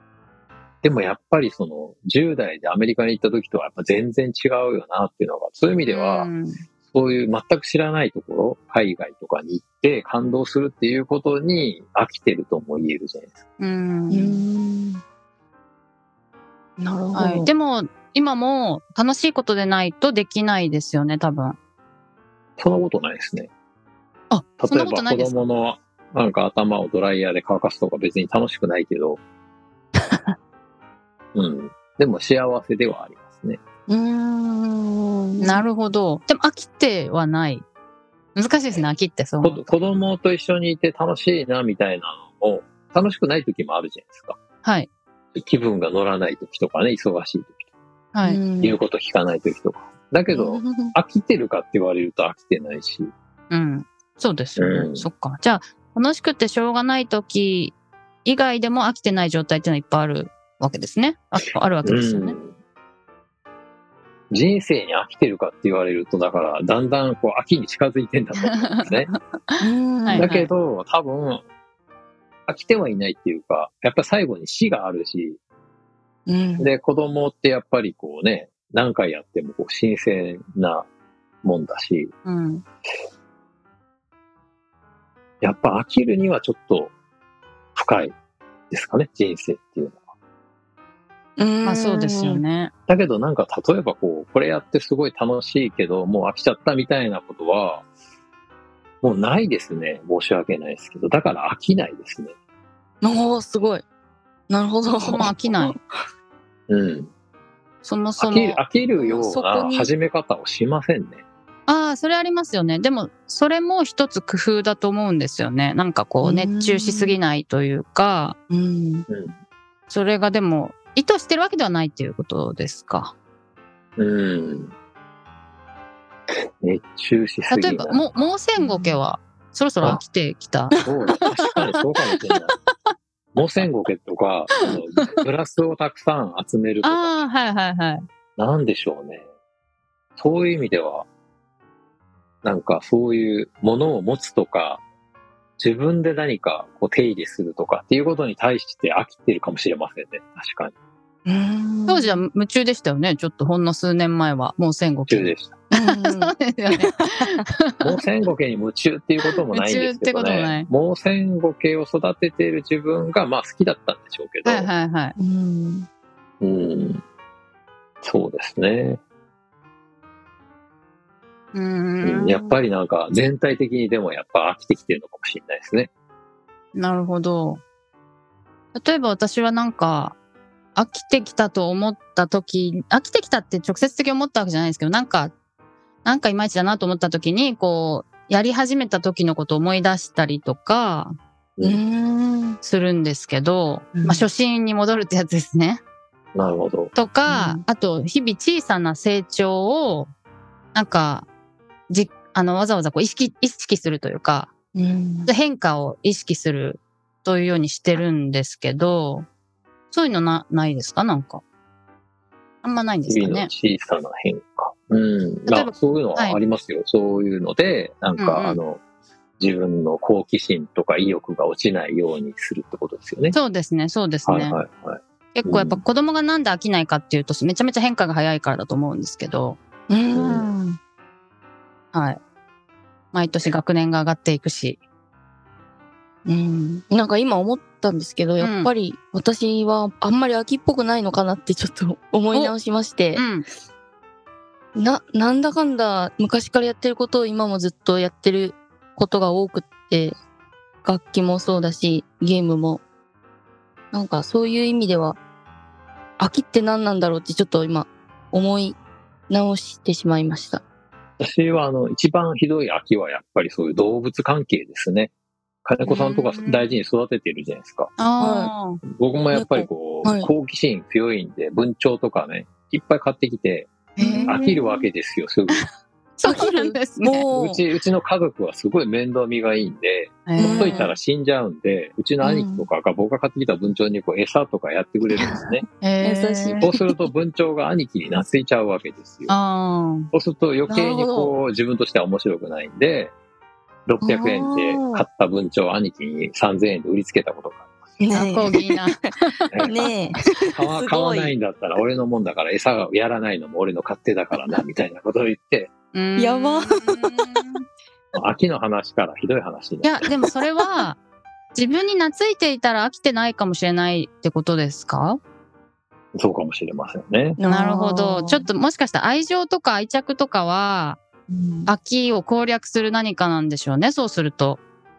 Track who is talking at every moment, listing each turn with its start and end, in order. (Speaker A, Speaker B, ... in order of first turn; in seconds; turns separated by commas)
Speaker A: 0.8-6.3, Speaker B: 5.9-6.6, Speaker A: 6.9-13.4, Speaker B: 13.6-14.4, Speaker C: 14.1-15.0, Speaker C: 16.8-17.5, Speaker B: 17.1-21.6, Speaker A: 22.6-23.5, Speaker B: 24.3-25.4, Speaker A: 24.6-29.2, Speaker A: 31.4-33.6, Speaker C: 33.9-35.6, Speaker B: 35.4-37.6, Speaker B: 38.4-39.7, Speaker A: 39.4-44.4, Speaker B: 44.6-44.9, Speaker A: 45.4-47.7, Speaker B: 48.1-48.4, Speaker C: 48.2-48.8, Speaker A: 48.6-53.1, Speaker C: 50.3-50.9, Speaker B: 53.5-62.4, Speaker A: 54.6-55.1, Speaker A: 61.9-62.5, Speaker A: 64.3-69.1, Speaker B: 68.4-70.5, Speaker C: 69.6-70.3, Speaker A: 70.2-71.4, Speaker A: 72.5-75.4, Speaker C: 76.3-76.7, Speaker A: 76.6-80.9, Speaker A: 81.4-82.1, Speaker B: 82.2-82.7, Speaker A: 85.4-86.9, Speaker A: 87.8-88.2, Speaker A: 88.7-90.0, Speaker C: 91.4-92.4, Speaker B: 91.6-92.7, Speaker A: 92.9-97.8, Speaker A: 99.0-102.3, Speaker C: 103.0-103.8, Speaker C: 104.5-106.0, Speaker B: 105.0-105.8, Speaker A: 106.7-107.1, Speaker B: 107.8-108.6, Speaker A: 108.2-111.2, Speaker C: 109.0-109.9, Speaker B: 111.7-118.4, Speaker C: 116.2-117.2, Speaker C: 118.5-119.1, Speaker A: 119.1-119.4, Speaker B: 119.9-123.1, Speaker A: 124.0-124.7, Speaker A: 126.6-128.2, Speaker B: 127.5-130.8, Speaker C: 128.6-129.0, Speaker A: 130.8-132.5, Speaker A: 133.3-137.2, Speaker B: 134.6-135.2, Speaker B: 136.8-138.1, Speaker A: 138.4-139.3, Speaker A: 140.2-141.1, Speaker A: 142.4-144.8, Speaker A: 145.6-150.7, Speaker C: 151.3-152.2, Speaker B: 151.9-155.3, Speaker A: 155.1-155.6, Speaker C: 155.7-157.1, Speaker B: 155.8-157.9, Speaker A: 157.8-164.7, Speaker B: 159.5-160.7, Speaker B: 164.4-165.1, Speaker C: 165.2-165.9, Speaker A: 166.4-167.0, Speaker A: 168.0-169.0, Speaker B: 171.5-172.6, Speaker A: 172.0-175.9, Speaker B: 176.8-177.6, Speaker B: 178.7-180.2, Speaker B: 180.8-185.3, Speaker B: 186.0-191.1, Speaker C: 191.6-192.6, Speaker B: 192.6-195.8, Speaker C: 193.9-194.3, Speaker A: 196.3-196.9, Speaker B: 196.9-200.1, Speaker C: 197.3-197.6, Speaker B: 200.7-201.3, Speaker B: 201.9-204.5, Speaker C: 204.8-205.3, Speaker B: 205.3-209.3, Speaker B: 209.9-211.4, Speaker B: 212.6-213.5, Speaker A: 213.1-218.8, Speaker B: 215.5-216.4, Speaker B: 218.2-218.6, Speaker A: 219.4-223.4, Speaker B: 223.3-224.6, Speaker A: 224.3-225.8, Speaker B: 225.3-229.6, Speaker C: 229.9-230.8, Speaker A: 230.2-230.5, Speaker B: 231.9-232.2, Speaker B: 233.1-234.8, Speaker C: 236.3-243.2, Speaker B: 238.4-238.7, Speaker B: 243.2-243.5, Speaker C: 244.8-250.2, Speaker C: 250.8-252.8, Speaker C: 253.9-255.2, Speaker C: 256.2-258.8, Speaker C: 259.3-260.6, Speaker A: 261.2-265.1, Speaker A: 265.6-267.9, Speaker B: 265.8-266.7, Speaker B: 268.0-268.8, Speaker C: 268.2-268.5, Speaker A: 268.9-273.7, Speaker C: 269.3-270.3, Speaker B: 274.0-274.4, Speaker C: 274.0-274.7, Speaker A: 274.3-275.6, Speaker B: 276.2-277.3, Speaker C: 276.2-277.6, Speaker A: 277.3-285.6, Speaker B: 280.3-280.9, Speaker C: 280.4-281.0, Speaker C: 282.2-282.7, Speaker C: 285.2-285.4, Speaker B: 285.8-286.7, Speaker C: 286.0-286.7, Speaker A: 286.6-289.3, Speaker B: 289.3-290.1, Speaker A: 290.1-293.1, Speaker C: 290.7-291.4, Speaker A: 293.9-297.8, Speaker C: 294.0-295.0, Speaker C: 298.0-301.3, Speaker B: 298.1-299.0, Speaker A: 299.5-299.8, Speaker A: 300.6-305.7, Speaker B: 305.9-307.6, Speaker C: 306.2-307.2, Speaker A: 308.1-310.1, Speaker B: 309.8-311.0, Speaker B: 311.5-315.2, Speaker A: 316.1-317.4, Speaker C: 317.4-318.5, Speaker B: 317.5-321.0, Speaker C: 321.3-321.7, Speaker B: 321.7-324.6